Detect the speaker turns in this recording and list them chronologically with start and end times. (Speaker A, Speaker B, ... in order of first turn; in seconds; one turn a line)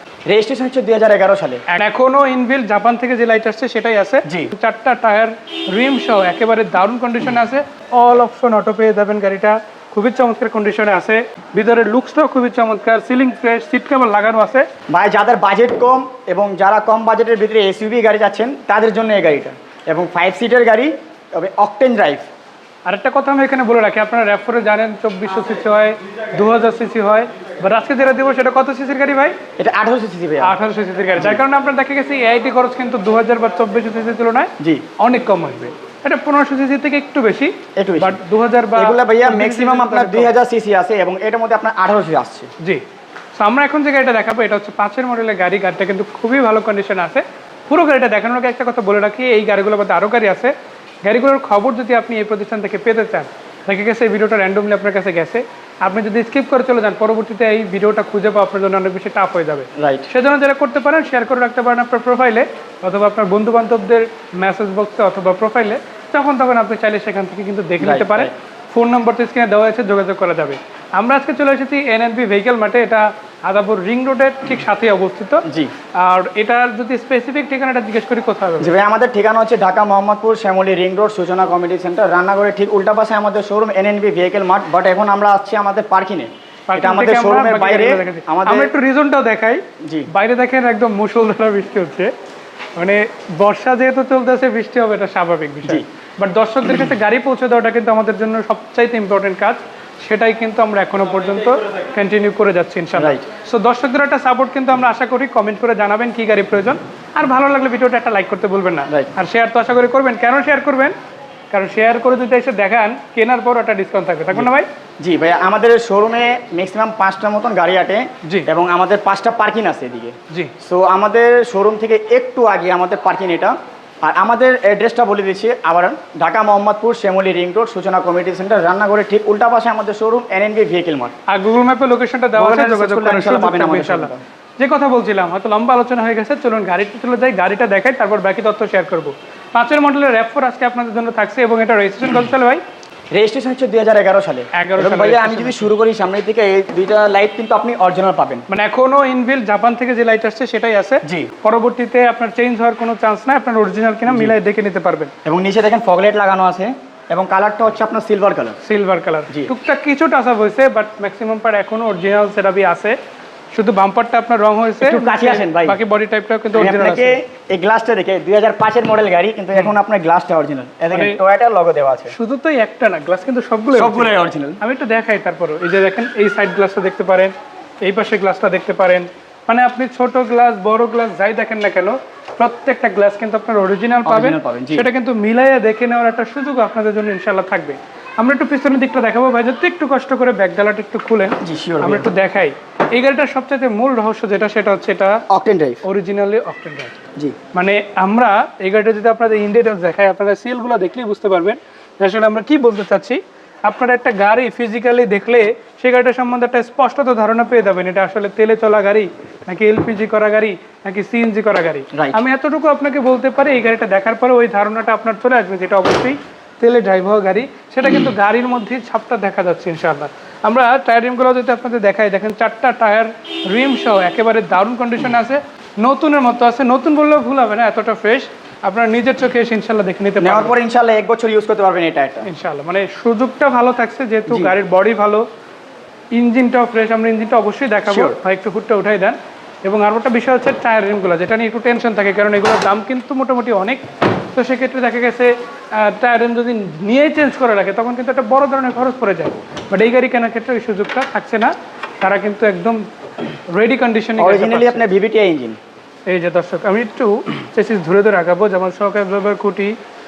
Speaker A: 0.3-1.6
Speaker B: 1.7-14.7
Speaker A: 4.3-4.5
Speaker A: 14.9-22.3
Speaker B: 22.9-29.4
Speaker A: 29.6-30.6
Speaker B: 30.4-40.3
Speaker A: 34.6-34.9
Speaker A: 37.8-38.2
Speaker A: 38.8-42.5
Speaker B: 43.4-75.4
Speaker A: 59.8-60.1
Speaker A: 67.8-68.3
Speaker A: 75.5-75.7
Speaker B: 76.0-78.7
Speaker A: 78.6-88.7
Speaker B: 86.7-92.1
Speaker A: 89.8-90.1
Speaker B: 92.8-111.0
Speaker A: 103.0-103.2
Speaker B: 111.5-114.7
Speaker A: 115.0-131.2
Speaker B: 131.3-142.6
Speaker A: 132.4-134.2
Speaker A: 143.1-148.5
Speaker B: 144.5-145.7
Speaker B: 148.5-155.1
Speaker A: 151.0-151.3
Speaker A: 154.1-154.3
Speaker A: 155.2-158.6
Speaker B: 158.6-163.0
Speaker B: 163.5-167.2
Speaker A: 164.8-165.8
Speaker A: 166.5-172.1
Speaker B: 170.9-171.2
Speaker B: 172.1-195.2
Speaker A: 173.7-174.6
Speaker A: 184.1-184.9
Speaker A: 191.4-192.1
Speaker A: 195.3-195.8
Speaker B: 195.8-197.0
Speaker B: 197.5-230.5
Speaker A: 211.9-212.2
Speaker A: 230.2-232.3
Speaker B: 232.3-235.2
Speaker A: 234.3-234.6
Speaker B: 236.1-243.8
Speaker A: 237.9-238.2
Speaker B: 244.3-252.8
Speaker B: 253.5-254.8
Speaker A: 254.2-255.6
Speaker B: 256.1-259.8